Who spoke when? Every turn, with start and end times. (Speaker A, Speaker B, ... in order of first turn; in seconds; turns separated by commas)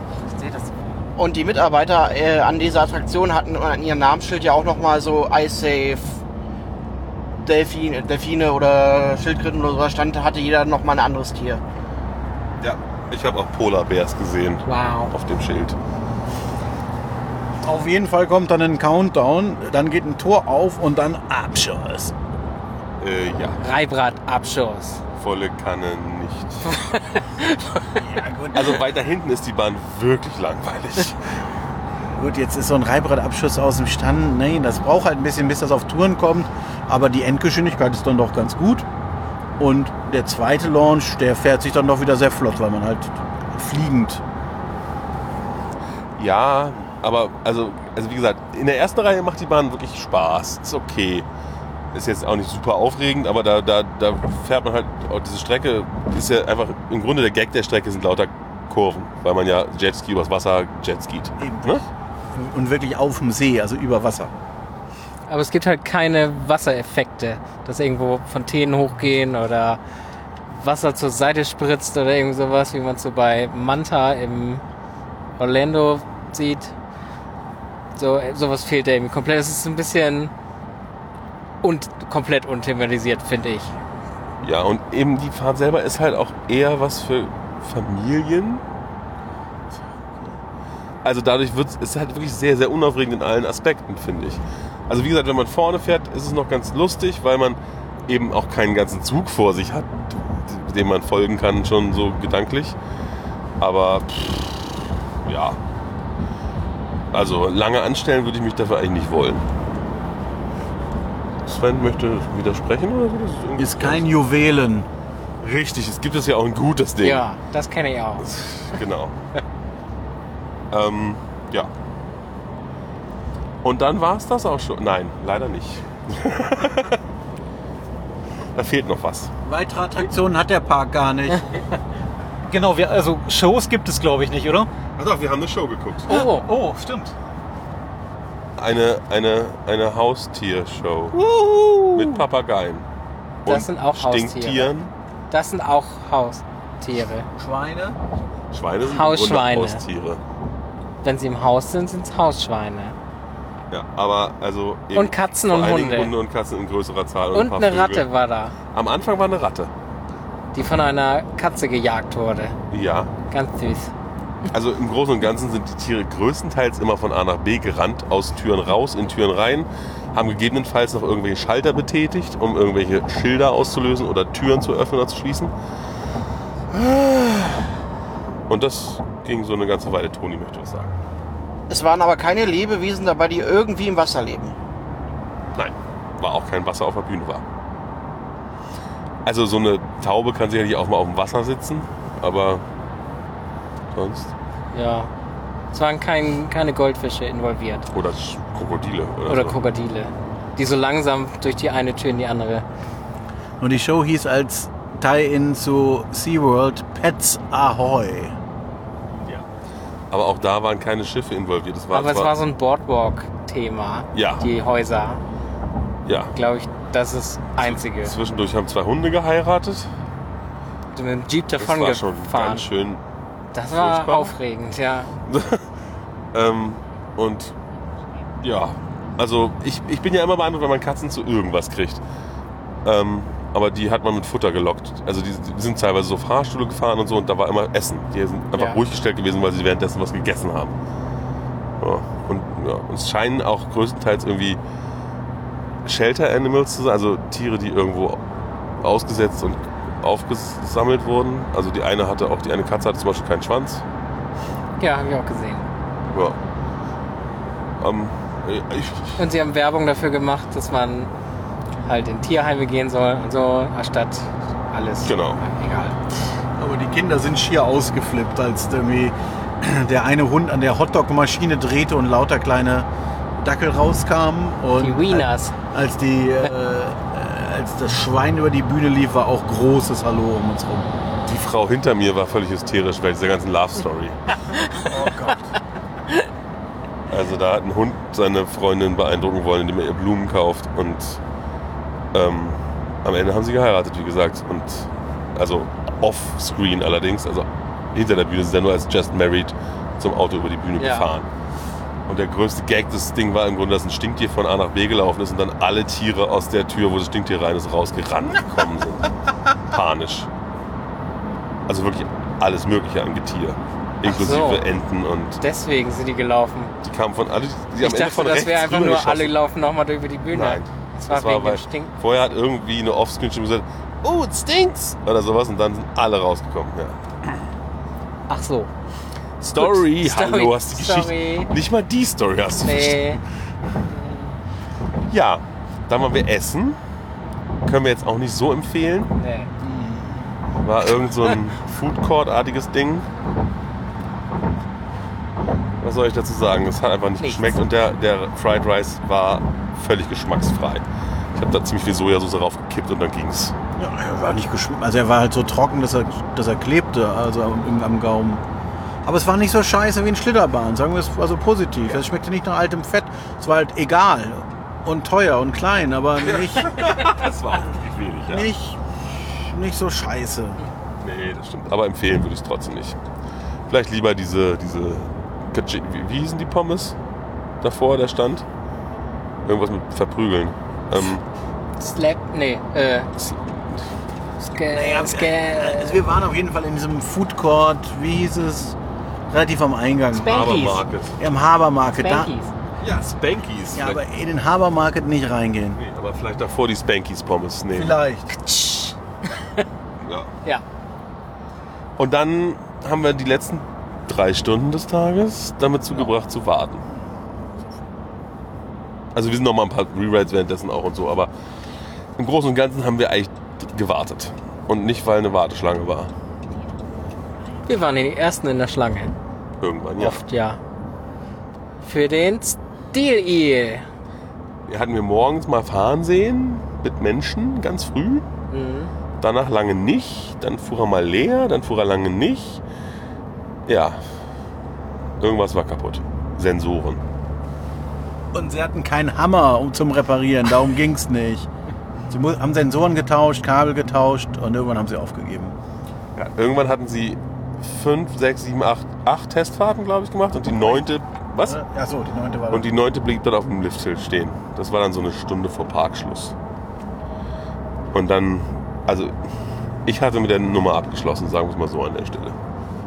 Speaker A: 0.2-0.9, Speaker B: 1.2-6.2, Speaker B: 7.4-11.6, Speaker C: 12.6-15.8, Speaker A: 14.7-15.1, Speaker D: 17.6-22.1, Speaker C: 23.0-23.6, Speaker A: 23.6-25.0, Speaker C: 25.2-26.8, Speaker A: 26.7-28.0, Speaker D: 27.9-28.8, Speaker C: 28.5-31.2, Speaker D: 32.1-38.9, Speaker D: 39.6-44.2, Speaker C: 46.2-51.3, Speaker C: 51.9-61.8, Speaker D: 61.4-64.3, Speaker A: 65.3-69.8, Speaker A: 70.5-74.6, Speaker A: 75.4-76.7, Speaker A: 78.0-80.3, Speaker A: 81.6-83.7, Speaker C: 84.4-88.6, Speaker C: 91.0-102.8, Speaker C: 103.6-105.6, Speaker C: 107.1-109.5, Speaker C: 111.5-114.1, Speaker D: 113.6-114.9, Speaker C: 115.4-117.3, Speaker A: 117.0-118.3, Speaker C: 118.2-119.2, Speaker C: 120.7-121.7, Speaker C: 123.6-127.0, Speaker C: 128.6-129.3, Speaker D: 129.4-131.5, Speaker E: 132.5-134.7, Speaker C: 135.0-136.2, Speaker E: 136.1-137.2, Speaker A: 136.1-136.5, Speaker C: 138.6-141.2, Speaker D: 141.2-141.9, Speaker C: 141.9-142.9, Speaker C: 143.4-144.9, Speaker A: 143.5-144.7, Speaker A: 145.3-147.3, Speaker D: 147.4-148.0, Speaker C: 148.5-150.2, Speaker A: 148.8-149.8, Speaker A: 151.0-153.0, Speaker C: 153.7-158.1, Speaker A: 154.9-156.1, Speaker A: 157.3-158.6, Speaker C: 158.7-159.7, Speaker A: 160.5-162.6, Speaker C: 162.7-163.1, Speaker A: 163.3-163.9, Speaker C: 164.5-175.5, Speaker C: 176.7-177.7, Speaker C: 178.5-180.9, Speaker B: 181.7-184.6, Speaker C: 185.6-187.4, Speaker C: 189.2-192.6, Speaker C: 193.9-194.3, Speaker A: 194.7-195.1, Speaker A: 195.7-197.9, Speaker C: 197.9-199.6, Speaker A: 199.3-202.7, Speaker D: 203.6-208.4, Speaker C: 210.1-212.3, Speaker A: 211.9-215.2, Speaker C: 214.1-214.5, Speaker C: 216.1-216.3, Speaker A: 216.3-218.2, Speaker C: 217.6-219.9, Speaker A: 220.9-222.7, Speaker C: 221.6-223.0, Speaker A: 223.5-225.1, Speaker C: 223.7-224.4, Speaker C: 225.3-225.7, Speaker C: 226.3-227.6, Speaker C: 228.4-232.0, Speaker C: 232.8-240.8, Speaker C: 241.8-244.6, Speaker C: 245.8-248.2, Speaker C: 248.8-253.8, Speaker A: 254.8-255.7, Speaker C: 256.1-256.4, Speaker C: 257.8-259.2, Speaker A: 259.2-261.1, Speaker A: 261.9-266.0, Speaker C: 265.0-265.4, Speaker D: 266.6-272.9, Speaker D: 273.4-280.9, Speaker A: 274.8-275.6, Speaker C: 281.2-284.2, Speaker D: 284.8-285.5, Speaker C: 287.1-291.2, Speaker C: 292.1-301.3, Speaker A: 300.8-301.1, Speaker C: 302.1-309.1, Speaker C: 309.7-310.3, Speaker C: 311.7-315.4, Speaker A: 314.0-314.6, Speaker A: 315.4-316.7, Speaker C: 316.8-319.4, Speaker A: 317.8-321.9, Speaker C: 320.3-327.4, Speaker A: 328.3-328.7, Speaker C: 329.4-333.2, Speaker A: 329.6-331.5, Speaker A: 332.6-333.2, Speaker A: 333.9-334.3, Speaker C: 335.1-336.8, Speaker C: 337.6-339.1, Speaker A: 339.2-339.5, Speaker D: 339.6-340.3, Speaker C: 340.6-343.1, Speaker C: 345.8-350.8, Speaker A: 347.2-347.6, Speaker C: 351.4-353.6, Speaker D: 353.8-358.4, Speaker D: 359.0-366.9, Speaker C: 366.2-368.5, Speaker D: 368.3-368.8, Speaker D: 369.4-370.6, Speaker C: 371.0-373.0, Speaker C: 373.7-377.0, Speaker C: 377.6-378.5, Speaker C: 379.4-381.2, Speaker A: 381.8-383.1, Speaker C: 383.2-383.8, Speaker A: 384.4-386.0, Speaker D: 384.7-388.8, Speaker D: 389.3-390.4, Speaker A: 390.1-390.8, Speaker C: 390.2-391.2, Speaker D: 391.2-392.3, Speaker A: 392.0-392.5, Speaker C: 392.8-394.0, Speaker D: 393.7-395.8, Speaker C: 395.8-398.0, Speaker D: 397.7-398.4, Speaker A: 398.4-399.6, Speaker C: 400.0-400.3, Speaker C: 402.0-406.8, Speaker C: 409.1-411.3, Speaker C: 412.2-416.1, Speaker A: 417.7-419.1, Speaker C: 419.6-420.2, Speaker A: 420.0-420.6, Speaker A: 421.8-423.9, Speaker C: 424.7-428.3, Speaker A: 428.5-428.9, Speaker C: 429.2-432.6, Speaker C: 433.7-434.0, Speaker C: 435.2-437.0, Speaker D: 438.3-441.5, Speaker D: 442.1-445.6, Speaker C: 446.1-451.6, Speaker D: 450.6-450.9, Speaker D: 451.4-452.7, Speaker C: 452.5-456.4, Speaker C: 457.9-459.1, Speaker C: 459.9-462.4